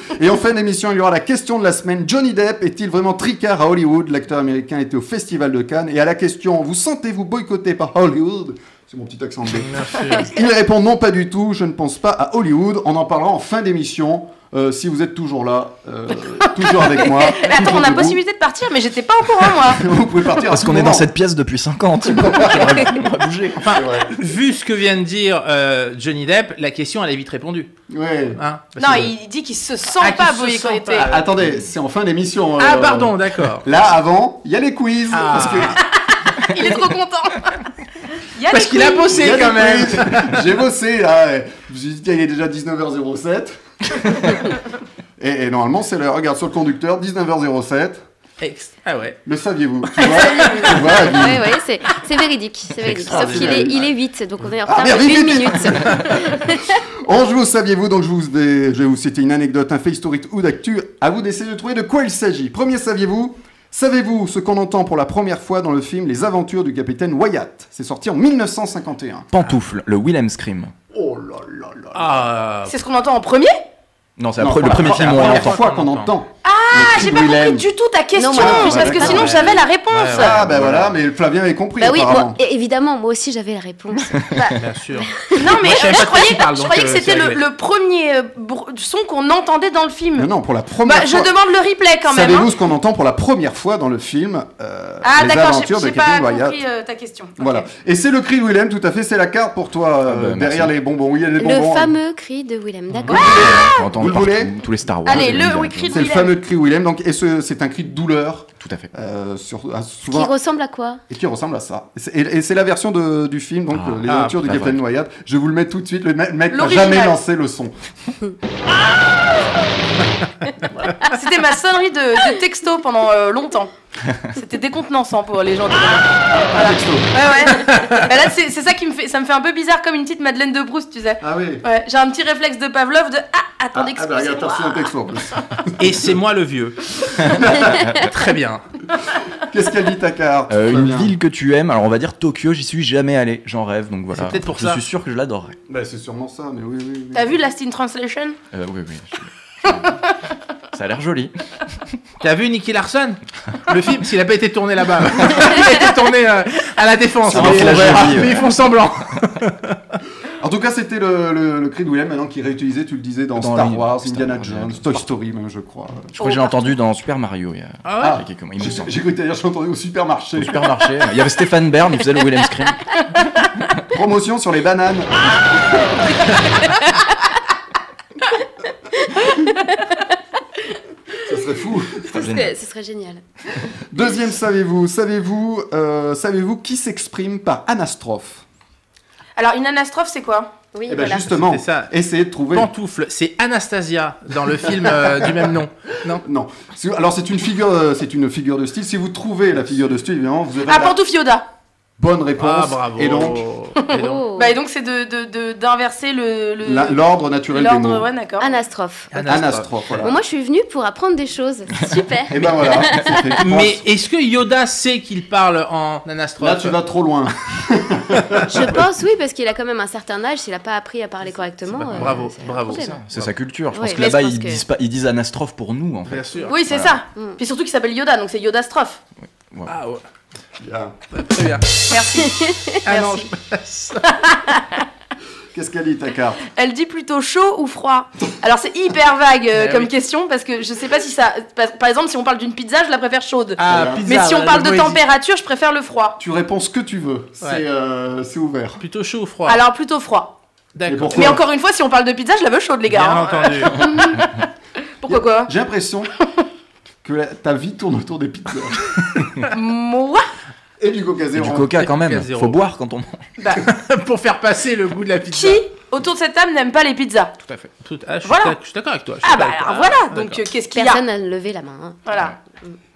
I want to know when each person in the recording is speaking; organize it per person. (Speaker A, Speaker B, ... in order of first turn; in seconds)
Speaker A: 0.1-18.2, 19.4-21.1, 22.0-24.2, 27.9-28.4, 31.0-35.8, 39.1-44.4, 45.2-48.0, 49.2-51.5, 53.0-53.9, 54.6-69.3, 70.9-72.2, 74.4-77.7, 78.3-79.6, 80.1-82.4, 90.2-91.3, 92.1-96.6, 97.4-102.0, 103.1-104.6, 105.2-110.3, 111.1-117.8, 126.3-127.2, 131.2-131.6, 133.7-136.1, 137.2-137.9, 139.3-141.1, 145.7-147.4, 157.3-158.4, 160.4-166.1, 168.0-170.9, 173.8-175.9, 181.2-182.1, 183.9-188.4, 190.9-192.7, 194.6-195.5, 196.1-201.0, 202.0-203.5, 206.6-208.1, 209.2-210.1, 212.3-213.8, 216.4-218.8, 230.6-231.2, 235.5-236.4, 243.6-244.1, 246.2-248.8, 250.8-251.4, 255.1-256.1, 257.0-259.0, 260.8-261.8
Speaker B: 9.5-10.4, 23.6-27.7, 28.4-29.1, 30.0-31.3, 32.6-33.6, 35.1-35.8, 38.5-40.4, 48.4-49.2, 71.9-72.8, 74.8-76.1, 78.9-80.9, 84.5-87.4, 114.1-114.3, 127.5-128.1, 135.8-138.6, 144.1-144.8, 152.2-159.8, 167.8-168.2, 191.3-191.9, 192.5-196.2, 202.4-204.2, 209.1-210.0, 213.4-216.8, 221.8-223.3, 226.1-226.5, 229.7-230.0, 231.1-231.7, 232.8-234.1, 239.5-239.9, 243.6-245.0, 248.8-249.6, 250.8-251.3, 252.9-253.9, 261.7-262.6, 263.5-265.6, 267.4-270.4
Speaker C: 16.4-19.8, 28.8-31.1, 36.0-37.6, 38.3-39.3, 50.0-50.8, 72.7-73.6, 76.4-80.4, 85.3-90.3, 90.8-92.5, 95.0-97.7, 103.1-103.8, 105.0-106.3, 116.5-117.1, 121.0-123.7, 124.3-134.9, 147.1-148.4, 166.2-166.5, 189.4-190.5, 200.7-201.4, 203.8-208.6, 226.4-229.0, 231.9-233.3, 234.0-234.8, 236.5-246.2, 249.4-250.3, 251.1-254.5, 255.0-255.5, 259.5-260.3, 263.4-263.6, 265.3-267.4, 268.2-268.6, 269.2-271.0, 272.1-272.3
Speaker D: 20.4-23.8, 52.9-53.7, 69.3-70.7, 74.2-75.5, 100.1-100.7, 103.0-106.0, 108.6-108.9, 113.7-114.8, 137.7-138.1, 140.5-145.6, 148.5-149.9, 150.7-151.3, 157.3-158.4, 163.4-165.1, 166.1-168.9, 170.4-173.0, 182.1-182.5, 222.7-226.9, 229.2-229.7, 259.2-259.4, 261.4-263.2
Speaker E: 50.4-56.7, 78.2-79.3, 81.8-85.5, 101.4-103.2, 110.1-111.0, 179.1-180.0, 182.1-183.2, 190.7-191.3, 203.9-204.6, 208.4-209.2, 210.0-213.4, 218.5-223.0, 223.7-224.6, 227.1-227.4, 232.2-232.8, 270.7-272.1